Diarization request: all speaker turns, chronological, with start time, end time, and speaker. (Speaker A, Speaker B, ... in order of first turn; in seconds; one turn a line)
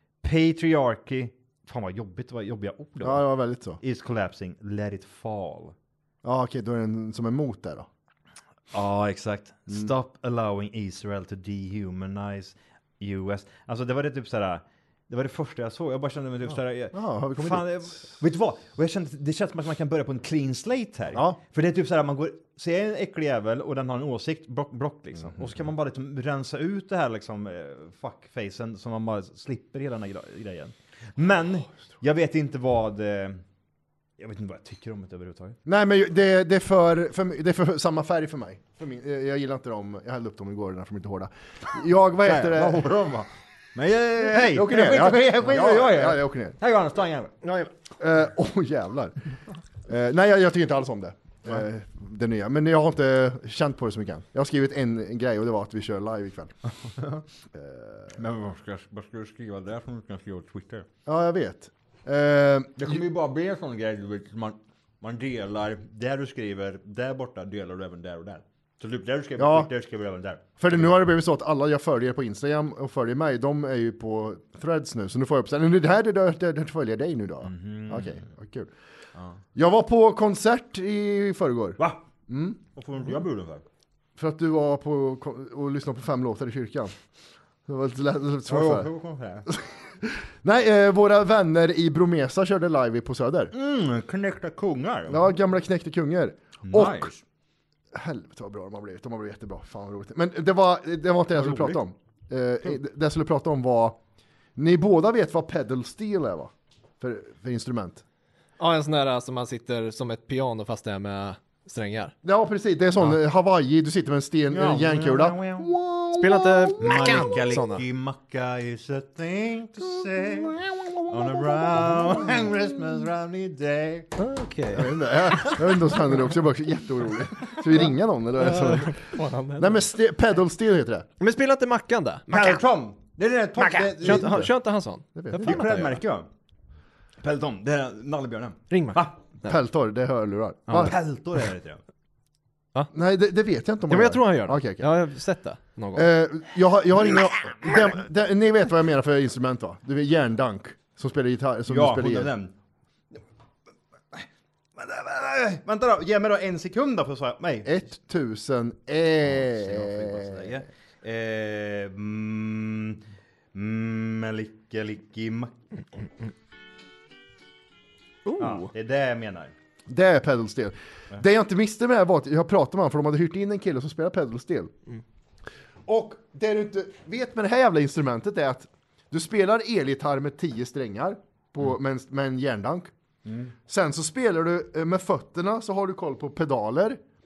Speaker A: 0.2-3.2
Speaker B: 3.0-3.8
Speaker A: 3.8-5.7
Speaker B: 6.2-7.9
Speaker A: 8.7-33.4
Speaker B: 16.9-18.0
Speaker A: 34.2-35.6
Speaker B: 35.6-42.9
Speaker A: 42.2-47.3
Speaker B: 44.3-46.5
Speaker C: 47.4-47.7
Speaker B: 48.0-49.1
Speaker B: 49.9-56.5
Speaker A: 56.9-57.2
Speaker B: 57.5-58.1
Speaker A: 58.1-60.9
Speaker B: 61.0-63.0
Speaker A: 62.8-71.0
Speaker B: 69.4-69.7
Speaker B: 70.6-78.7
Speaker A: 77.4-78.2
Speaker B: 79.5-82.6
Speaker A: 82.7-83.6
Speaker B: 84.2-86.9
Speaker B: 87.7-88.9
Speaker A: 88.5-89.5
Speaker B: 89.5-93.5
Speaker A: 93.5-95.3
Speaker B: 95.1-97.1
Speaker A: 96.6-97.2
Speaker B: 97.9-104.0
Speaker A: 101.3-101.8
Speaker B: 104.5-108.0
Speaker C: 108.6-112.1
Speaker B: 112.2-117.1
Speaker A: 114.5-115.7
Speaker C: 116.2-117.8
Speaker A: 116.8-124.1
Speaker C: 124.2-125.7
Speaker B: 124.7-131.1
Speaker C: 128.4-129.8
Speaker C: 131.2-132.6
Speaker A: 132.3-134.5
Speaker C: 133.6-136.0
Speaker B: 134.0-134.5
Speaker B: 135.1-135.7
Speaker A: 135.4-136.3
Speaker A: 137.2-139.1
Speaker C: 138.7-139.6
Speaker B: 139.4-140.9
Speaker A: 140.7-141.8
Speaker B: 142.9-144.9
Speaker C: 143.9-146.1
Speaker B: 145.9-152.3
Speaker A: 151.7-152.5
Speaker A: 154.1-157.9
Speaker B: 157.6-160.6
Speaker A: 159.3-163.0
Speaker A: 163.5-165.5
Speaker C: 168.2-168.7
Speaker A: 168.4-169.5
Speaker B: 169.9-174.7
Speaker B: 175.9-182.9
Speaker A: 183.2-183.5
Speaker B: 183.7-187.0